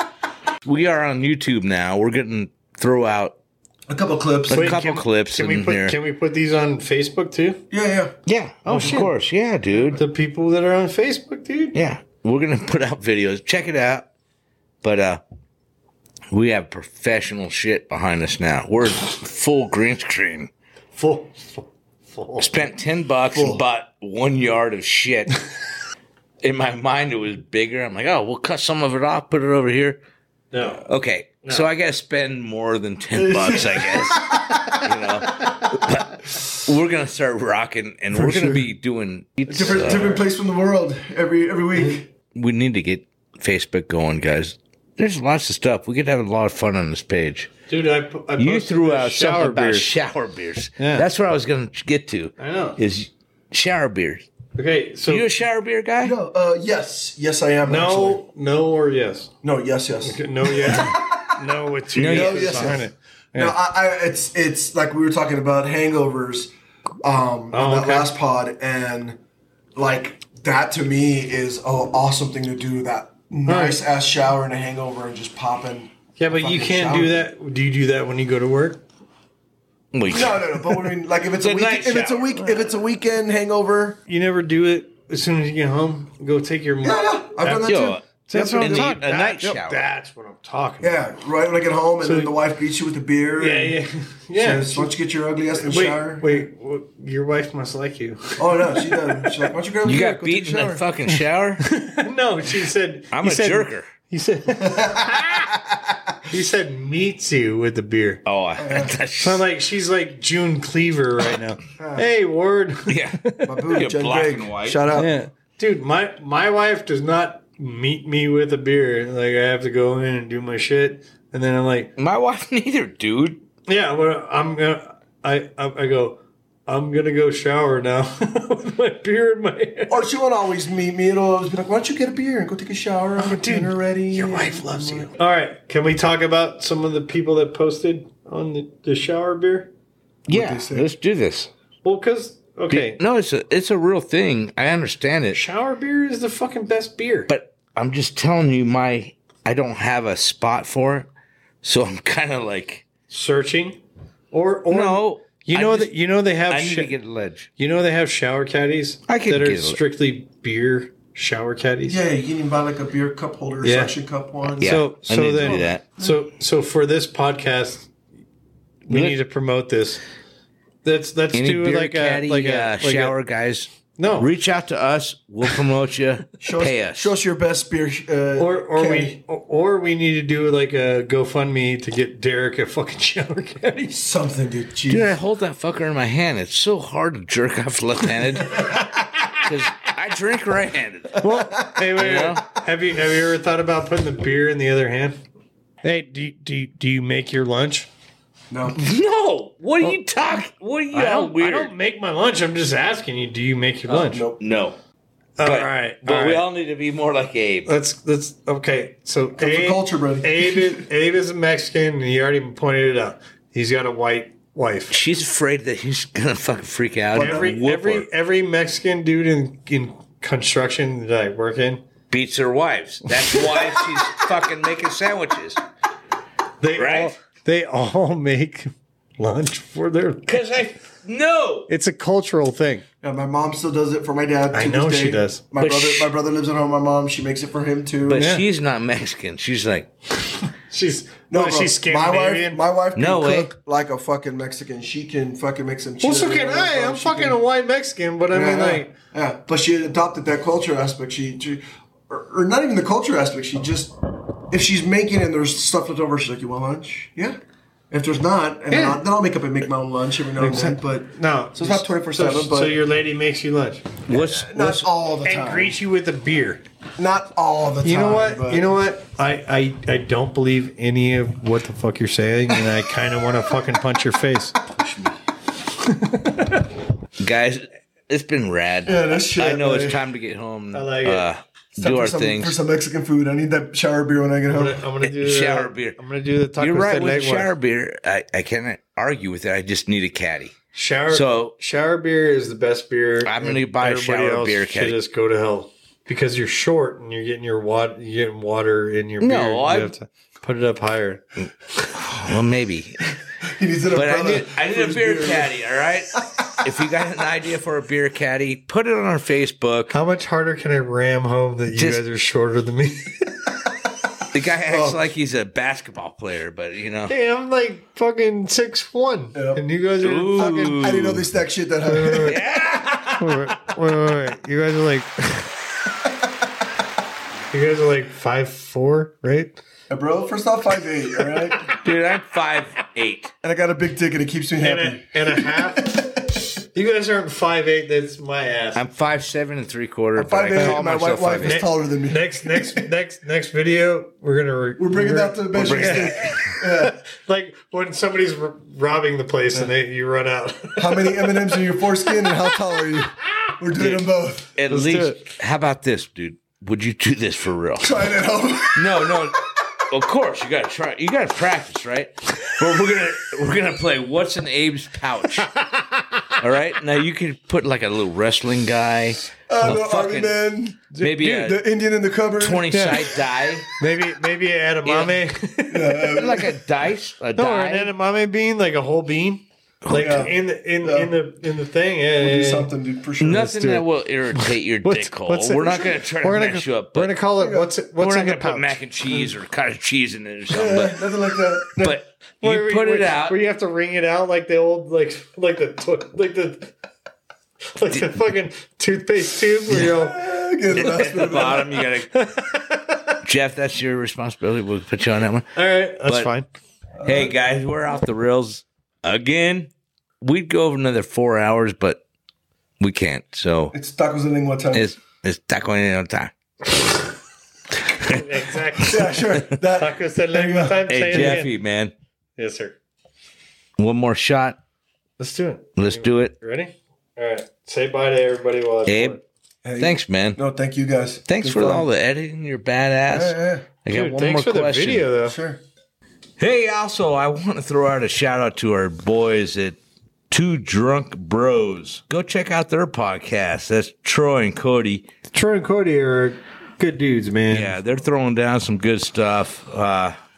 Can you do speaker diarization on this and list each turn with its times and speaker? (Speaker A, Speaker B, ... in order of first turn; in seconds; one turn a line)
Speaker A: 0.6-3.4
Speaker B: 3.9-4.7
Speaker A: 4.5-6.0
Speaker C: 4.5-7.6
Speaker B: 7.7-8.2
Speaker A: 8.3-10.0
Speaker C: 8.7-9.1
Speaker C: 9.9-11.8
Speaker A: 11.7-14.1
Speaker A: 14.8-15.2
Speaker A: 16.3-20.5
Speaker C: 20.9-22.5
Speaker A: 22.4-25.4
Speaker B: 23.3-23.6
Speaker A: 26.4-30.0
Speaker C: 30.5-30.8
Speaker A: 30.8-40.2
Speaker B: 33.1-34.8
Speaker B: 38.1-38.6
Speaker B: 39.5-42.1
Speaker A: 42.4-47.5
Speaker C: 47.7-49.9
Speaker A: 48.4-54.3
Speaker C: 50.8-51.1
Speaker C: 52.4-52.8
Speaker C: 54.5-55.3
Speaker A: 55.1-56.2
Speaker B: 56.0-58.2
Speaker C: 57.7-59.3
Speaker B: 59.4-61.3
Speaker C: 60.0-63.5
Speaker A: 62.0-62.8
Speaker B: 62.0-66.5
Speaker B: 67.0-69.2
Speaker C: 67.5-68.1
Speaker B: 69.8-77.2
Speaker C: 73.5-73.8
Speaker C: 76.2-78.8
Speaker A: 79.9-80.6
Speaker B: 80.1-84.0
Speaker A: 81.4-82.4
Speaker C: 84.1-87.7
Speaker B: 86.8-88.9
Speaker A: 87.6-88.0
Speaker C: 88.3-91.0
Speaker A: 88.6-89.8
Speaker B: 90.8-93.8
Speaker C: 92.0-92.3
Speaker C: 93.4-94.9
Speaker B: 94.3-96.4
Speaker C: 95.6-99.3
Speaker B: 98.4-100.8
Speaker A: 99.8-101.6
Speaker C: 101.6-105.5
Speaker A: 103.1-103.9
Speaker B: 104.6-105.2
Speaker C: 106.3-108.2
Speaker A: 108.2-109.5
Speaker B: 108.6-108.9
Speaker C: 109.2-113.7
Speaker B: 111.8-112.1
Speaker A: 112.9-114.8
Speaker B: 113.4-115.1
Speaker C: 114.9-121.9
Speaker A: 122.0-123.4
Speaker C: 123.7-130.0
Speaker B: 129.9-135.1
Speaker C: 133.2-139.7
Speaker A: 140.3-141.5
Speaker B: 140.3-140.9
Speaker C: 141.8-143.0
Speaker A: 142.7-145.4
Speaker C: 145.3-147.3
Speaker A: 147.3-151.1
Speaker A: 151.6-152.9
Speaker C: 153.1-153.8
Speaker C: 154.3-157.0
Speaker A: 154.7-155.9
Speaker A: 156.4-157.5
Speaker C: 157.6-162.0
Speaker A: 159.1-159.8
Speaker B: 161.9-164.8
Speaker C: 163.6-163.9
Speaker C: 164.5-167.9
Speaker A: 164.6-165.8
Speaker C: 168.9-170.0
Speaker A: 168.9-169.2
Speaker C: 170.8-173.2
Speaker A: 171.3-177.1
Speaker C: 173.9-174.3
Speaker B: 176.4-179.2
Speaker C: 178.4-184.0
Speaker B: 183.9-185.2
Speaker A: 184.9-191.2
Speaker B: 191.2-191.8
Speaker C: 191.2-195.2
Speaker A: 192.0-192.4
Speaker C: 195.8-197.9
Speaker B: 198.5-198.8
Speaker A: 198.8-201.7
Speaker C: 200.9-204.2
Speaker B: 203.9-204.4
Speaker A: 204.4-204.8
Speaker C: 205.4-206.5
Speaker A: 205.4-207.7
Speaker C: 207.7-214.9
Speaker B: 209.4-210.8
Speaker A: 214.9-218.1
Speaker B: 217.2-217.5
Speaker C: 217.2-221.9
Speaker A: 222.1-225.6
Speaker C: 223.1-223.7
Speaker C: 226.6-230.4
Speaker A: 226.7-227.1
Speaker A: 230.3-231.7
Speaker C: 231.7-232.8
Speaker B: 233.0-238.2
Speaker C: 234.5-235.4
Speaker A: 235.6-236.1
Speaker A: 238.0-239.9
Speaker C: 238.2-238.4
Speaker C: 240.7-242.6
Speaker B: 241.3-247.4
Speaker A: 242.9-243.5
Speaker C: 246.0-248.9
Speaker B: 248.3-253.9
Speaker B: 254.5-257.4
Speaker B: 257.9-262.8
Speaker C: 258.7-259.0
Speaker C: 260.4-263.9
Speaker A: 264.1-264.9
Speaker B: 264.1-265.8
Speaker C: 265.2-266.6
Speaker B: 267.0-268.7
Speaker C: 267.8-274.6
Speaker B: 274.8-275.1
Speaker C: 275.8-276.6
Speaker A: 277.2-282.6
Speaker B: 278.9-280.0
Speaker C: 280.7-281.3
Speaker B: 281.8-284.8
Speaker C: 284.5-287.5
Speaker A: 285.0-286.0
Speaker A: 286.6-290.6
Speaker C: 290.7-301.2
Speaker A: 291.1-291.5
Speaker A: 293.2-295.0
Speaker A: 299.2-299.9
Speaker A: 301.9-303.2
Speaker B: 303.5-305.6
Speaker A: 303.9-310.0
Speaker C: 309.9-313.4
Speaker A: 311.8-312.0
Speaker A: 314.3-317.1
Speaker C: 317.1-320.9
Speaker B: 319.3-319.6
Speaker A: 320.0-321.2
Speaker B: 320.4-322.4
Speaker C: 321.9-322.4
Speaker A: 322.2-323.6
Speaker C: 323.1-325.5
Speaker C: 327.5-329.6
Speaker B: 329.9-331.7
Speaker A: 331.8-333.3
Speaker B: 333.4-336.1
Speaker C: 334.6-338.8
Speaker A: 338.7-341.6
Speaker B: 340.2-342.8
Speaker C: 340.6-340.8
Speaker C: 341.4-351.4
Speaker B: 344.8-347.0
Speaker A: 345.5-346.4
Speaker B: 350.8-354.5
Speaker A: 353.8-358.1
Speaker C: 354.7-355.2
Speaker B: 357.8-359.0
Speaker A: 358.8-365.5
Speaker C: 365.6-366.0
Speaker A: 366.4-370.4
Speaker B: 369.5-373.1
Speaker C: 370.9-371.5
Speaker A: 371.0-371.6
Speaker A: 372.4-373.7
Speaker C: 372.7-373.1
Speaker C: 373.8-376.1
Speaker A: 374.9-375.1
Speaker B: 375.7-376.6
Speaker A: 376.1-377.9
Speaker C: 377.3-382.7
Speaker A: 379.8-380.3
Speaker B: 379.9-381.1
Speaker B: 382.2-383.6
Speaker A: 383.2-387.1
Speaker C: 383.3-383.9
Speaker C: 384.8-389.2
Speaker B: 387.4-387.7
Speaker A: 388.0-391.0
Speaker B: 390.5-392.0
Speaker A: 391.8-393.4
Speaker C: 392.4-396.7
Speaker C: 397.8-400.3
Speaker A: 397.9-398.2
Speaker B: 399.7-401.9
Speaker A: 400.7-402.1
Speaker C: 402.1-403.1
Speaker A: 403.2-405.5
Speaker C: 405.6-406.5
Speaker B: 407.0-407.3
Speaker A: 407.0-412.0
Speaker A: 412.8-413.7
Speaker B: 413.7-414.9
Speaker A: 414.7-417.0
Speaker A: 418.0-418.2
Speaker C: 418.0-419.2
Speaker B: 418.8-421.4
Speaker C: 419.8-421.5
Speaker A: 420.9-421.9
Speaker C: 422.4-422.8
Speaker A: 423.8-424.6
Speaker C: 425.2-429.2
Speaker A: 425.8-426.4
Speaker A: 428.9-429.2
Speaker B: 429.6-431.9
Speaker A: 429.8-430.4
Speaker A: 431.3-435.1
Speaker B: 433.1-433.7
Speaker C: 433.9-435.4
Speaker B: 435.2-435.6
Speaker A: 436.4-439.8
Speaker A: 440.3-445.1
Speaker C: 445.3-447.8
Speaker A: 447.5-450.2